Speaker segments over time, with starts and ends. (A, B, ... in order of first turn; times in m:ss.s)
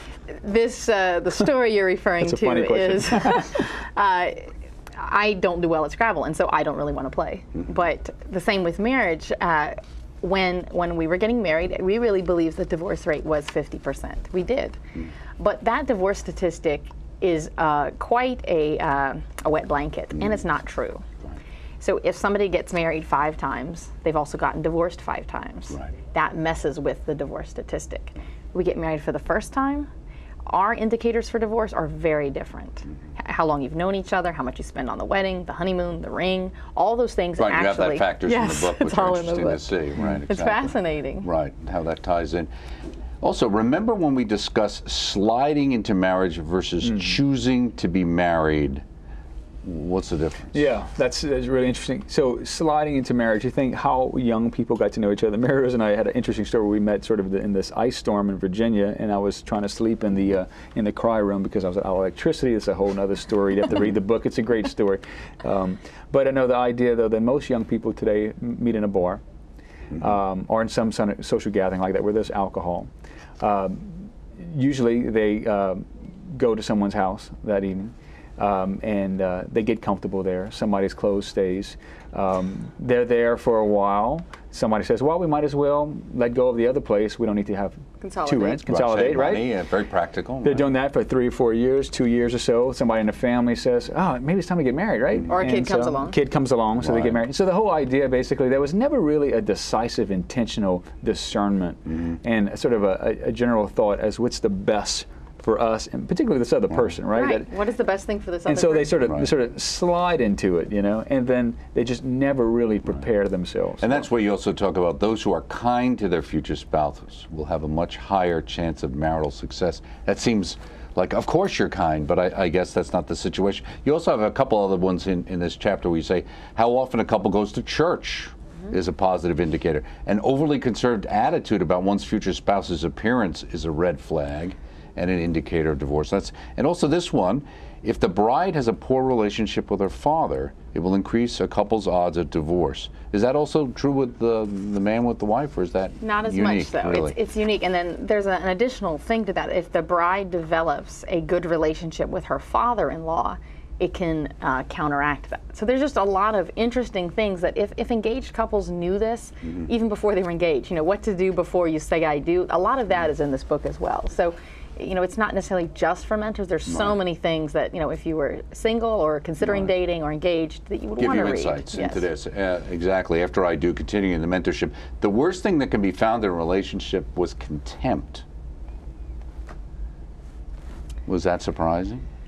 0:00.3-0:14.8 A
0:02.2-0:03.5 B
0:15.4-0:21.0 A
0:21.8-0:29.9 A
0:30.5-0:39.7 A
0:37.4-0:42.5 C
0:40.3-0:41.3 A
0:43.2-0:48.8 C
0:46.8-0:47.1 B
0:49.6-0:50.6 C
0:50.5-1:09.2 B
1:09.9-1:29.5 B
1:28.0-1:28.6 A
1:28.7-1:30.6 C
1:30.4-1:47.5 B
1:35.3-1:36.2 A
1:47.1-1:49.0 A
1:48.5-1:54.1 B
1:53.8-2:27.1 C
2:26.0-2:52.0 A
2:46.7-2:47.0 C
2:49.4-2:49.7 C
2:51.0-2:58.2 C
3:01.0-3:02.0 C